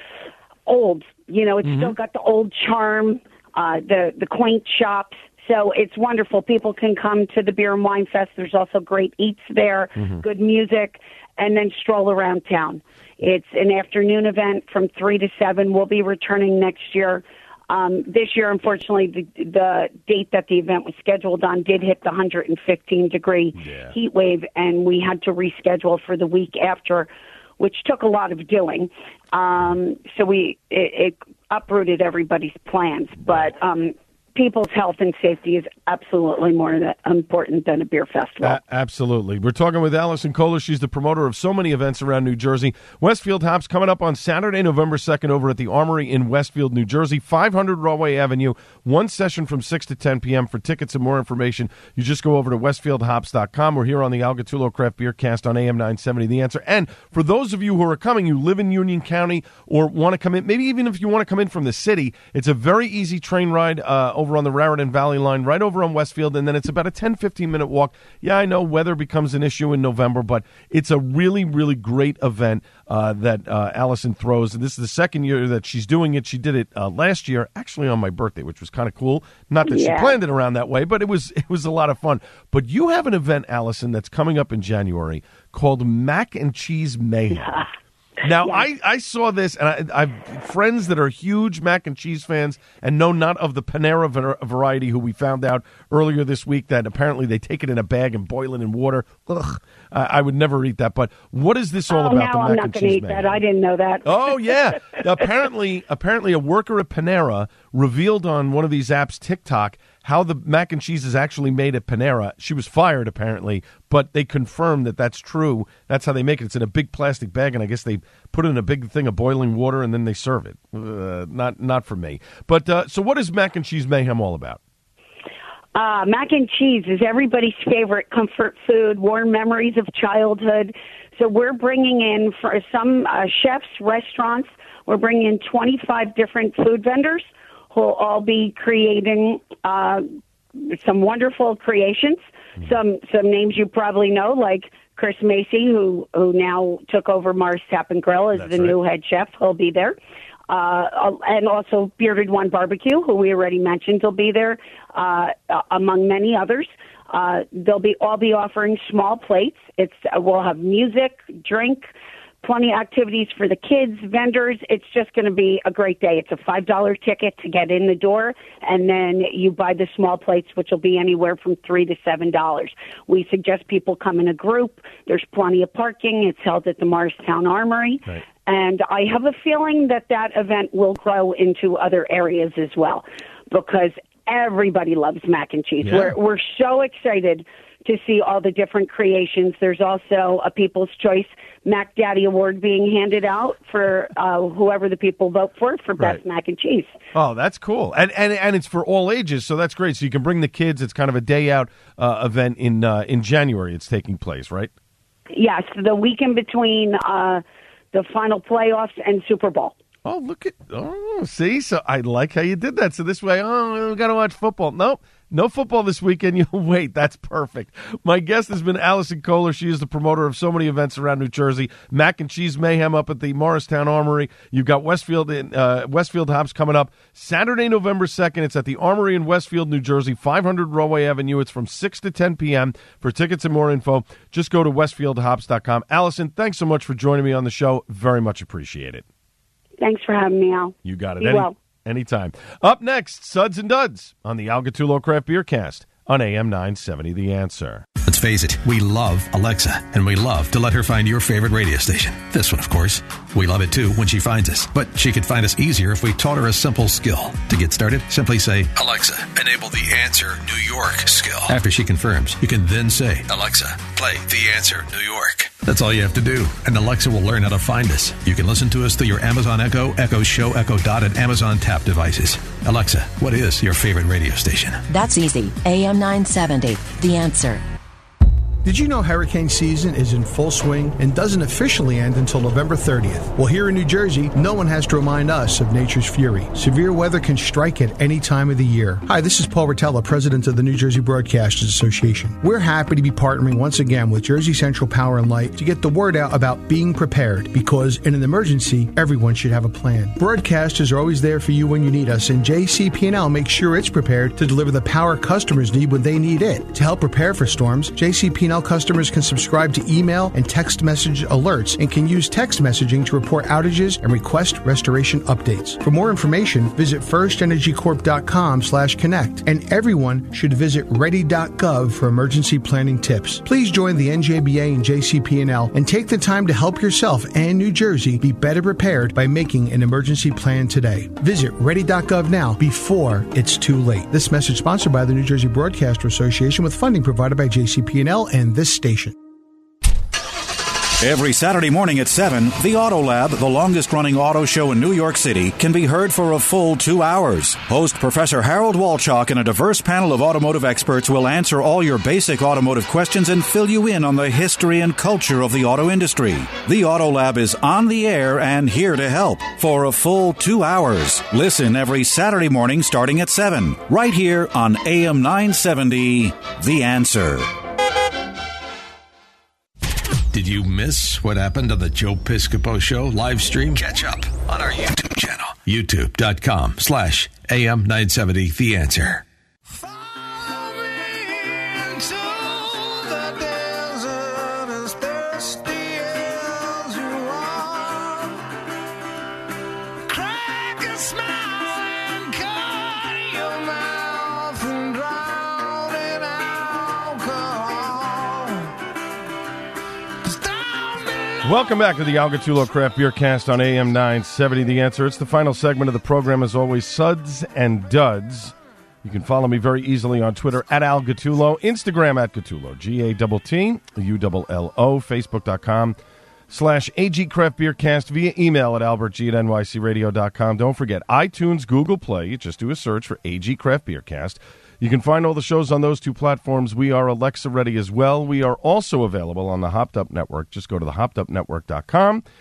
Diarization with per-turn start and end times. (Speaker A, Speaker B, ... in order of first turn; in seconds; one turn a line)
Speaker A: 0.7-38.6
Speaker B: 1.6-1.9
Speaker B: 10.0-10.2
Speaker B: 23.6-23.9
Speaker B: 38.4-87.7
Speaker A: 79.7-80.2
Speaker A: 87.4-87.7
Speaker B: 88.2-103.4
Speaker A: 88.4-88.6
Speaker A: 101.9-104.2
Speaker B: 104.0-124.6
Speaker A: 125.8-150.0
Speaker B: 148.3-148.8
Speaker A: 150.5-161.9
Speaker A: 162.4-197.0
Speaker B: 185.8-186.1
Speaker B: 197.1-204.7
Speaker A: 205.3-209.8
Speaker B: 210.1-239.1
Speaker A: 239.8-241.6
Speaker B: 240.8-247.9
Speaker C: 248.1-274.8
Speaker D: 274.9-277.6
Speaker E: 278.6-339.2
Speaker F: 341.0-367.5
Speaker C: 370.3-379.2
Speaker C: 383.6-384.0
Speaker C: 385.3-385.8
Speaker B: 401.4-416.0
Speaker B: 416.5-432.2